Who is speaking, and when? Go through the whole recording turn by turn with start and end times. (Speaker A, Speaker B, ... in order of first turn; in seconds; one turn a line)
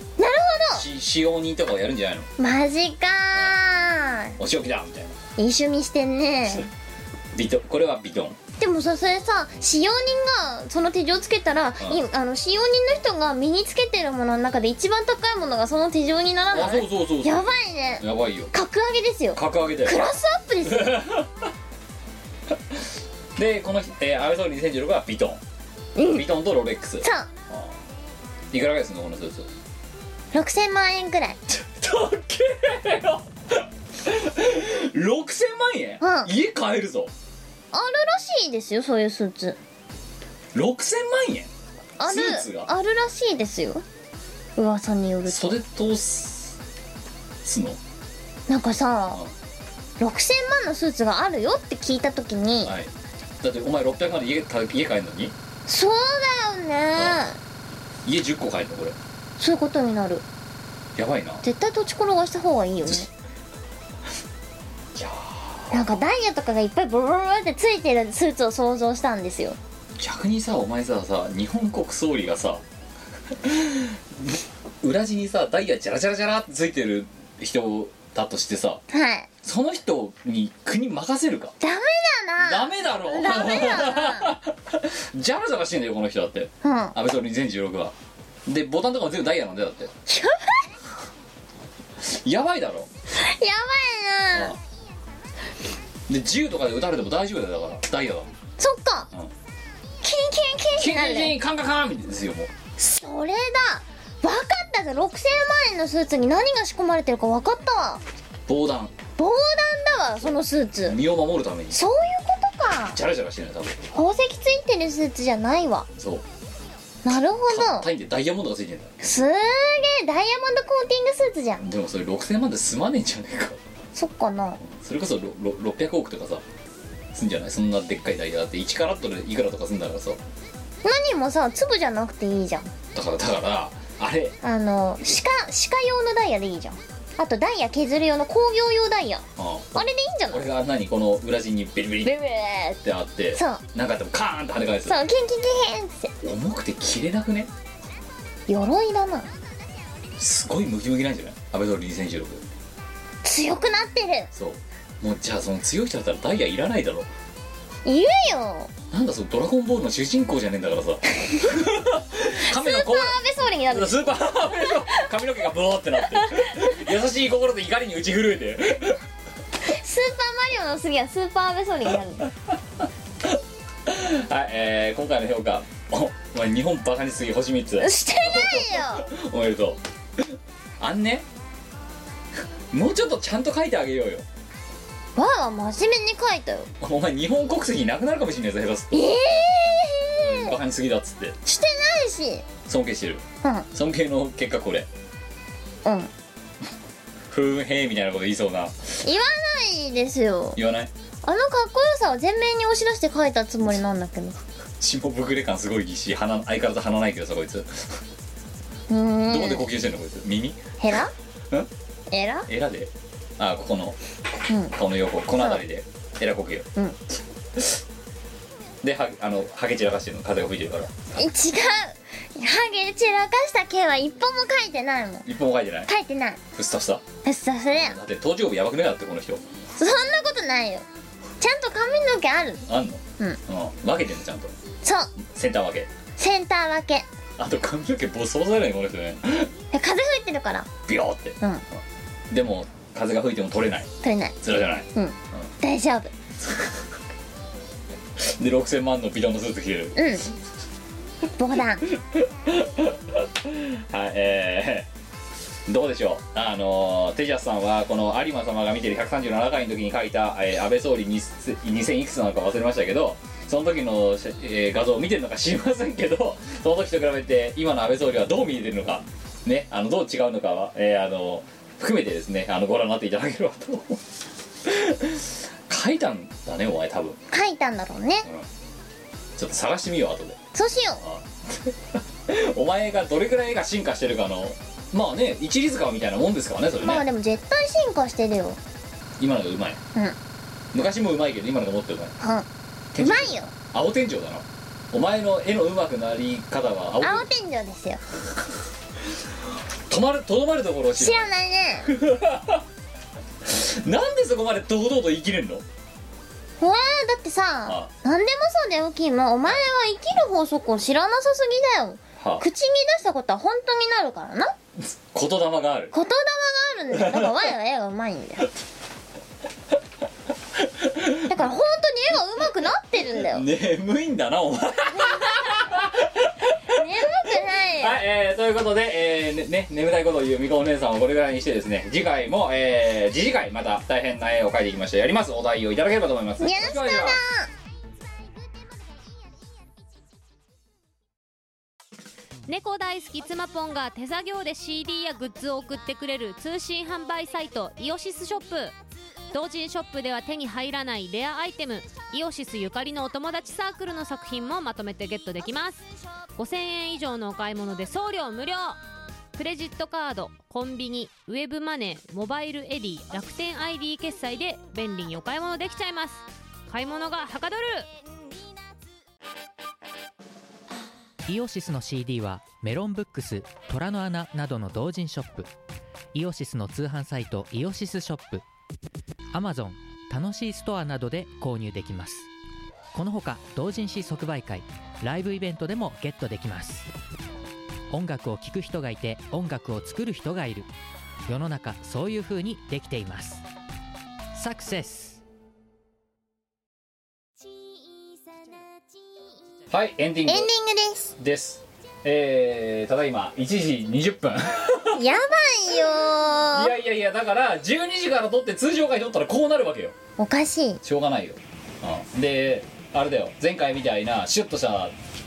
Speaker A: 0.2-0.8
Speaker B: 0.8-2.3
Speaker A: 2.4-4.3
Speaker B: 4.4-5.2
Speaker A: 5.4-6.7
Speaker B: 7.3-8.4
Speaker A: 8.6-21.0
Speaker B: 16.5-18.5
Speaker B: 19.4-20.1
Speaker B: 20.7-21.3
Speaker B: 23.4-25.4
Speaker A: 26.0-26.2
Speaker B: 26.1-27.8
Speaker A: 27.0-27.3
Speaker B: 28.5-29.5
Speaker A: 30.3-31.4
Speaker B: 31.5-37.1
Speaker A: 36.0-36.3
Speaker A: 37.7-39.6
Speaker B: 40.5-41.5
Speaker A: 42.0-43.8
Speaker B: 42.1-42.7
Speaker A: 44.6-45.6
Speaker B: 45.3-46.6
Speaker B: 47.5-47.8
Speaker A: 48.5-49.2
Speaker A: 50.0-52.7
Speaker B: 52.6-52.9
Speaker B: 53.4-55.4
Speaker A: 55.7-57.4
Speaker B: 58.0-59.0
Speaker A: 59.4-60.2
Speaker B: 61.0-61.4
Speaker A: 61.4-63.1
Speaker B: 65.0-65.8
Speaker A: 65.7-69.6
Speaker B: 70.0-72.6
Speaker B: 73.4-78.8
Speaker A: 78.9-79.3
Speaker B: 79.4-81.5
Speaker A: 81.6-84.3
Speaker B: 82.4-87.9
Speaker A: 86.6-86.9
Speaker B: 88.5-89.9
Speaker A: 90.1-90.7
Speaker B: 92.0-92.9
Speaker A: 93.1-94.5
Speaker B: 96.1-98.3
Speaker A: 98.6-99.1
Speaker A: 100.0-101.3
Speaker B: 100.8-102.5
Speaker A: 102.8-108.0
Speaker B: 108.5-109.0
Speaker A: 109.2-111.0
Speaker B: 110.8-111.8
Speaker A: 111.7-113.0
Speaker B: 112.9-113.8
Speaker A: 113.9-115.9
Speaker B: 116.0-116.2
Speaker A: 117.0-117.9
Speaker B: 117.5-118.9
Speaker A: 119.0-121.7
Speaker B: 121.6-123.6
Speaker A: 124.0-124.6
Speaker B: 124.7-126.4
Speaker B: 127.1-130.2
Speaker A: 130.8-132.7
Speaker B: 132.9-134.4
Speaker A: 134.4-139.2
Speaker B: 139.4-142.2
Speaker A: 139.8-140.5
Speaker A: 142.0-142.8
Speaker B: 142.8-145.0
Speaker A: 143.4-143.6
Speaker A: 144.9-146.1
Speaker B: 146.2-147.5
Speaker A: 148.5-149.3
Speaker B: 150.2-152.4
Speaker A: 153.2-154.3
Speaker B: 154.3-157.1
Speaker A: 157.8-158.7
Speaker B: 158.9-163.2
Speaker A: 162.4-165.0
Speaker B: 163.7-169.0
Speaker A: 166.2-166.6
Speaker A: 169.6-172.3
Speaker B: 173.9-180.2
Speaker A: 177.8-179.1
Speaker B: 180.8-181.2
Speaker B: 182.7-184.2
Speaker A: 185.2-186.7
Speaker B: 186.8-189.0
Speaker A: 188.9-190.6
Speaker B: 190.2-191.4
Speaker A: 191.4-192.4
Speaker B: 192.7-194.9
Speaker A: 193.4-193.7
Speaker A: 195.8-196.1
Speaker B: 197.3-198.8
Speaker A: 199.0-200.6
Speaker B: 200.6-200.9
Speaker A: 201.2-204.4
Speaker B: 204.8-208.0
Speaker A: 208.9-209.6
Speaker B: 209.3-210.6
Speaker A: 210.8-211.1
Speaker A: 212.1-212.5
Speaker B: 212.5-214.0
Speaker A: 214.5-214.8
Speaker B: 214.7-216.7
Speaker B: 218.8-220.9
Speaker A: 221.1-225.3
Speaker B: 225.2-225.9
Speaker A: 225.9-226.4
Speaker B: 226.5-227.0
Speaker A: 227.2-228.0
Speaker B: 227.8-229.4
Speaker A: 229.8-230.8
Speaker A: 231.4-232.6
Speaker B: 232.7-234.5
Speaker A: 234.8-235.1
Speaker B: 235.2-235.9
Speaker A: 236.2-237.1
Speaker B: 237.4-239.5
Speaker A: 239.7-240.7
Speaker B: 240.9-241.4
Speaker B: 242.3-243.9
Speaker A: 244.0-244.4
Speaker B: 244.4-245.5
Speaker A: 244.9-246.1
Speaker B: 246.4-246.7
Speaker B: 248.2-250.0
Speaker A: 250.0-250.3
Speaker A: 251.4-251.9
Speaker B: 251.9-254.9
Speaker B: 255.7-274.0
Speaker B: 274.6-277.2
Speaker A: 277.3-278.3
Speaker B: 279.4-280.4
Speaker A: 280.5-281.0
Speaker B: 281.0-287.0
Speaker A: 286.8-288.6
Speaker B: 289.2-289.8
Speaker B: 290.7-292.1
Speaker A: 292.2-292.5
Speaker B: 292.9-297.3
Speaker A: 293.0-293.5
Speaker A: 297.0-298.0
Speaker B: 299.9-301.3
Speaker A: 301.0-301.9
Speaker B: 301.9-302.6
Speaker B: 303.4-305.6
Speaker A: 306.6-314.5
Speaker B: 312.2-312.4
Speaker B: 315.1-315.9
Speaker A: 315.9-318.5
Speaker B: 317.0-317.5
Speaker B: 320.6-321.5
Speaker A: 321.3-323.5
Speaker B: 323.3-326.6
Speaker A: 326.7-328.0
Speaker B: 327.8-337.2
Speaker A: 336.4-337.5
Speaker C: 342.5-348.8
Speaker C: 349.3-358.8
Speaker C: 359.4-367.9
Speaker D: 371.2-375.5
Speaker D: 376.1-378.4
Speaker D: 379.3-382.3
Speaker D: 382.9-386.9
Speaker D: 387.9-390.7
Speaker D: 391.3-393.4
Speaker D: 394.3-395.2
Speaker B: 399.7-400.5
Speaker A: 400.3-401.1
Speaker B: 401.2-405.0
Speaker A: 404.9-406.7
Speaker B: 406.5-410.0
Speaker A: 410.2-410.8
Speaker B: 410.8-414.9